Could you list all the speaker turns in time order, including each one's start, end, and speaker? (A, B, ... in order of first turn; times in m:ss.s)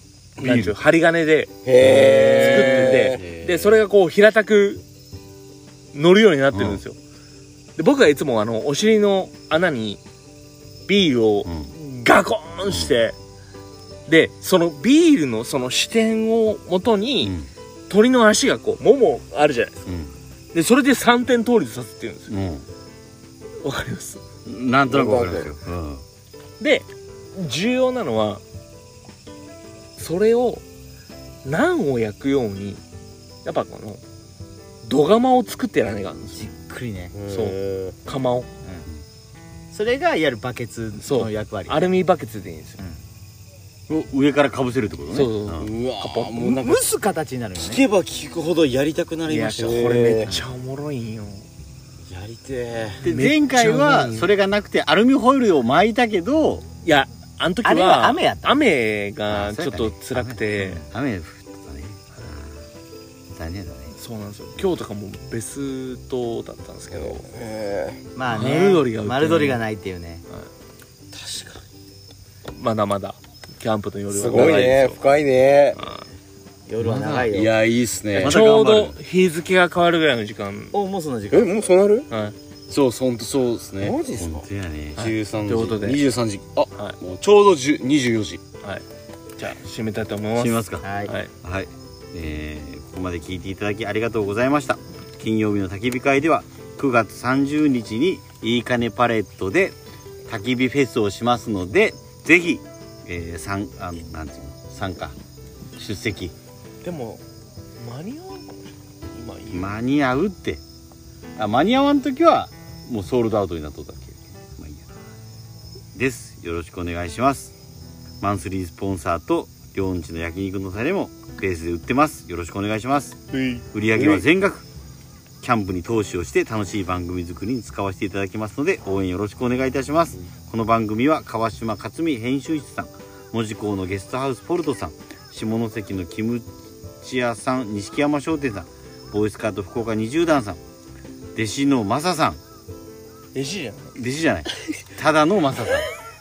0:00.4-0:00.7 A
0:00.4-0:01.6 B
0:01.6-0:03.2 C
0:01.8-0:03.8 D
0:02.2-0:04.8 B
0:05.9-0:07.0 B
0:06.5-0:06.8 A
0:07.8-0:10.0 B
0:10.9-0:13.2 B
0:11.5-0:11.7 A
0:14.1-0:17.3 B
0:17.9-0:19.8 B
0:19.9-0:20.1 A
0:20.5-0:22.3 B
0:22.3-0:22.6 A
0:23.6-0:24.2 B
0:24.5-0:26.0 A
0:24.9-0:25.5 C
0:26.6-0:28.4 B
0:30.0-0:30.6 B
0:31.4-0:32.8 B
0:33.4-0:34.0 B
0:34.9-0:36.5 B
0:36.4-0:37.2 E
0:37.3-0:38.5 B
0:39.7-0:41.9 E
0:41.0-0:42.8 B
0:43.9-0:45.7 A
0:45.1-0:46.4 B
0:45.6-0:46.9 D
0:46.4-0:47.8 E
0:47.6-0:50.3 D
0:49.3-0:51.4 B
0:49.6-0:50.3 C
0:52.1-0:53.0 D
0:53.0-0:54.3 B
0:53.0-0:56.7 A
0:56.8-1:00.8 B
0:57.6-0:58.6 E
0:59.3-1:02.6 A
1:00.6-1:00.9 E
1:03.4-1:03.9 A
1:04.0-1:07.3 B
1:06.9-1:08.0 C
1:08.2-1:10.2 E
1:08.3-1:09.6 B
1:12.5-1:15.0 B
1:14.1-1:15.8 C
1:15.8-1:16.0 B
1:16.7-1:17.7 E
1:16.9-1:17.2 A
1:17.0-1:18.4 D
1:18.2-1:19.0 A
1:18.2-1:20.7 B
1:20.7-1:21.5 E
1:21.3-1:22.1 C
1:22.1-1:22.4 B
1:22.7-1:24.0 D
1:23.8-1:24.5 C
1:24.2-1:25.1 A
1:25.0-1:26.1 B
1:25.0-1:28.4 D
1:29.4-1:31.3 B
1:30.4-1:39.7 A
1:30.8-1:31.1 E
1:40.3-1:45.2 A
1:45.8-1:46.3 A
1:46.8-1:47.2 B
1:47.8-1:49.8 B
1:49.5-1:50.6 A
1:51.4-1:54.8 A
1:56.0-1:57.5 A
1:58.2-2:04.6 A
2:05.4-2:16.5 A
2:17.0-2:20.6 A
2:21.4-2:22.4 A
2:23.3-2:24.0 B
2:24.0-2:25.9 A